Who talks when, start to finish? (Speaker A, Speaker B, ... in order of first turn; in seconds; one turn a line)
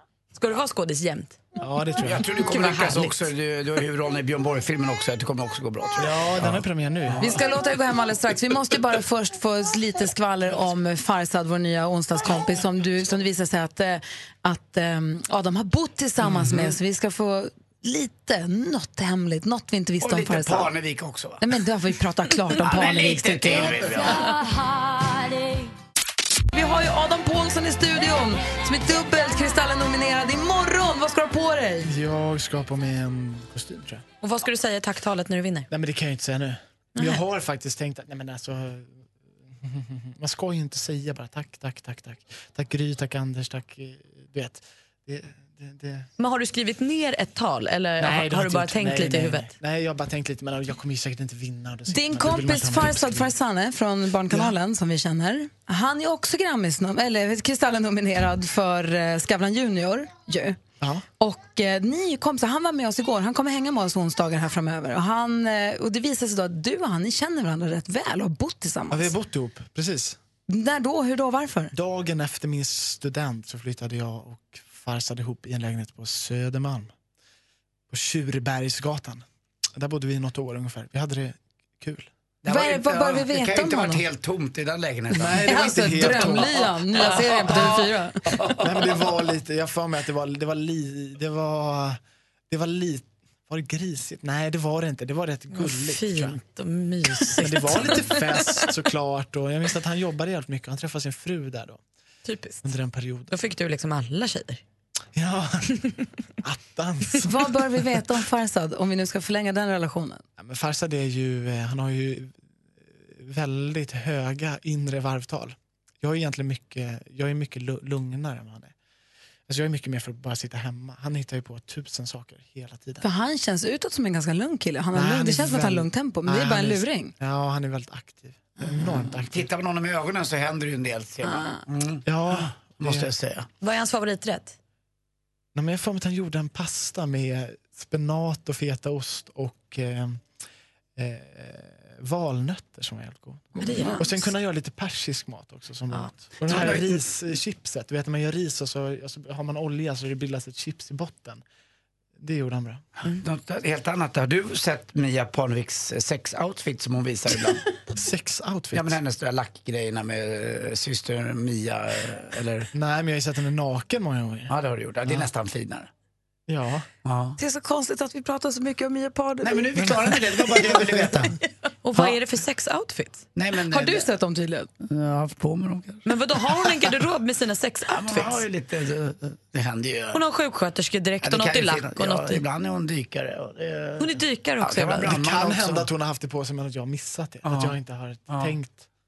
Speaker A: 0.4-1.4
Speaker B: 1.6-2.2
Speaker C: 2.0-7.4
Speaker A: 2.5-3.2
Speaker B: 6.0-7.4
Speaker D: 7.2-20.7
Speaker C: 20.0-21.6
Speaker D: 21.4-24.1
Speaker C: 22.6-24.3
Speaker D: 26.5-31.9
Speaker B: 31.9-34.0
Speaker A: 34.2-35.7
Speaker B: 35.7-39.0
Speaker A: 37.0-37.2
Speaker B: 39.6-46.1
Speaker A: 46.2-49.5
Speaker B: 48.0-53.4
Speaker D: 51.9-60.6
Speaker D: 61.2-69.1
Speaker B: 68.9-70.2
Speaker D: 70.5-71.7
Speaker B: 71.7-76.9
Speaker B: 77.9-79.2
Speaker B: 79.8-82.1
Speaker C: 82.4-85.5
Speaker D: 82.5-84.0
Speaker B: 85.2-86.7
Speaker D: 85.2-88.2
Speaker C: 87.2-89.0
Speaker B: 88.6-92.0
Speaker B: 92.5-96.4
Speaker A: 95.5-98.7
Speaker B: 97.1-101.8
Speaker A: 102.3-102.7
Speaker B: 102.6-103.3
Speaker A: 103.3-104.6
Speaker B: 105.2-107.4
Speaker D: 107.2-110.2
Speaker B: 110.4-112.4
Speaker B: 113.0-118.7
Speaker B: 119.5-123.0
Speaker D: 123.0-127.2
Speaker B: 124.9-129.5
Speaker C: 129.1-133.5
Speaker D: 131.2-131.6
Speaker B: 132.1-133.1
Speaker A: 133.6-134.6
Speaker B: 135.6-140.2
Speaker B: 141.0-151.4
Speaker A: 143.6-144.3
Speaker A: 145.9-146.2
Speaker C: 146.4-147.1
Speaker B: 152.2-152.9
Speaker C: 153.0-157.6
Speaker B: 157.9-159.0
Speaker C: 158.7-162.7
Speaker B: 162.7-164.5
Speaker C: 164.5-165.9
Speaker B: 166.5-166.9
Speaker C: 167.1-167.4
Speaker D: 167.4-170.2
Speaker C: 169.4-171.3
Speaker B: 169.8-171.4
Speaker A: 171.8-173.2
Speaker C: 173.3-174.1
Speaker D: 173.7-174.7
Speaker C: 174.8-177.0
Speaker A: 176.1-178.4
Speaker C: 177.9-180.2
Speaker A: 180.1-182.4
Speaker C: 181.2-185.9
Speaker A: 184.0-185.2
Speaker B: 185.0-188.9
Speaker C: 187.4-187.8
Speaker C: 188.3-188.6